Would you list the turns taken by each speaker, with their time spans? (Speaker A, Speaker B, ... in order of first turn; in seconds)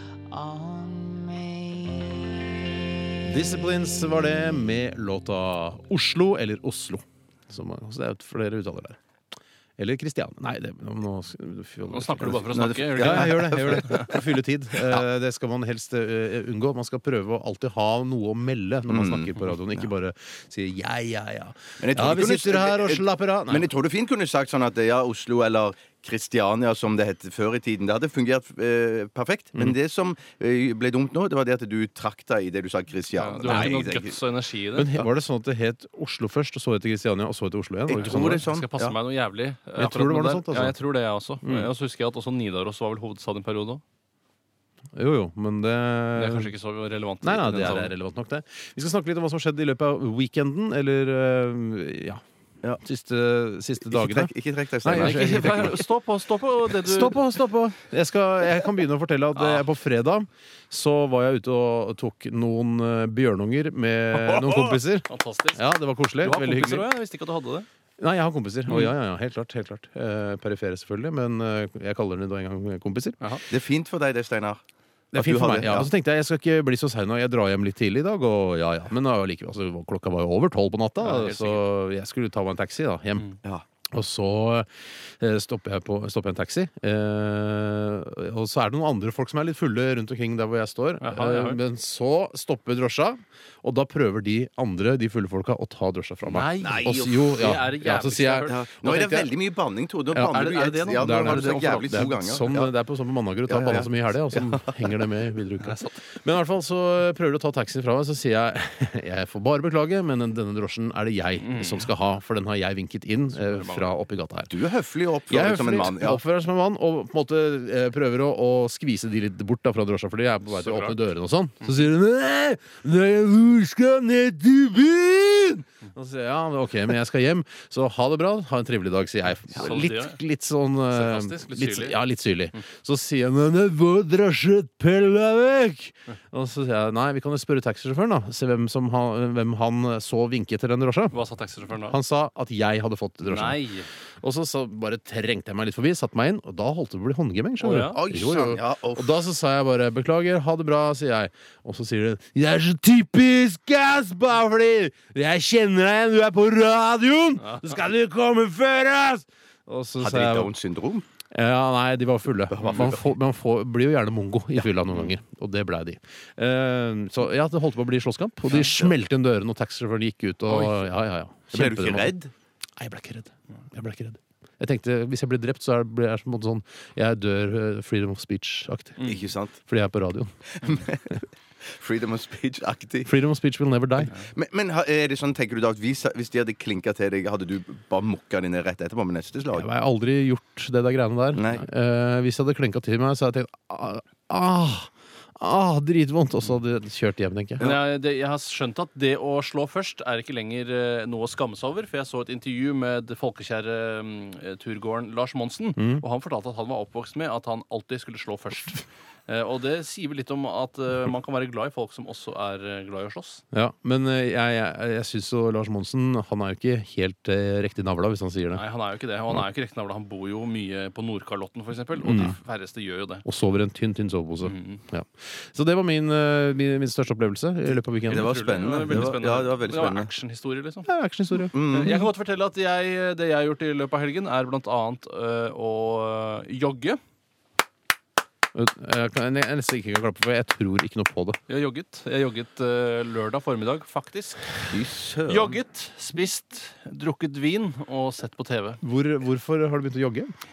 Speaker A: 0.3-3.2
Speaker B: 3.2-9.0, 9.8-23.7, 33.4-33.8, 34.7-38.4, 39.8-40.7, 41.4-41.7, 44.9-46.5, 47.2-52.2, 52.8-55.8, 56.8-66.9, 68.0-73.4, 75.1-83.3, 83.9-84.7, 85.2-99.3, 101.0-114.5, 115.3-141.2, 141.9-143.6, 144.2-160.5, 161.3-172.1, 172.8-181.1, 183.1-184.1, 189.5-197.7, 205.8-206.0, 213.5-218.6, 222.0-222.4, 223.2-229.2, 230.8-232.1, 238.5-241.4, 248.8-250.3
Speaker C: 11.9-14.2, 33.1-34.9, 37.9-43.8, 46.1-47.9, 54.9-57.2, 59.4-59.7, 65.1-67.7, 68.7-68.9, 81.0-81.6, 91.0-91.6, 96.3-99.1, 100.2-102.1, 105.7-106.0, 111.4-111.9, 113.4-113.9, 120.6-121.0, 129.5-130.2, 130.9-132.0, 141.1-142.0, 143.3-143.9, 147.6-148.0, 157.4-157.8, 170.5-170.9, 179.0-179.2, 197.6-213.4, 218.6-223.2, 224.4-224.8, 228.1-230.9, 231.6-237.0, 241.5-244.6, 245.3-248.8
Speaker D: 12.5-14.2, 18.9-19.9, 21.8-34.2, 37.9-39.0, 53.9-55.8, 64.2-64.8, 73.5-74.6, 75.1-75.9, 96.6-97.3, 98.5-102.7, 103.5-105.0, 114.5-116.2, 147.9-149.2, 160.0-161.1, 162.5-163.1, 168.7-169.0, 171.5-172.3, 179.0-179.6, 180.6-183.1, 184.1-189.7, 191.3-191.7, 197.6-197.9, 228.1-230.1, 231.5-232.0, 244.7-245.6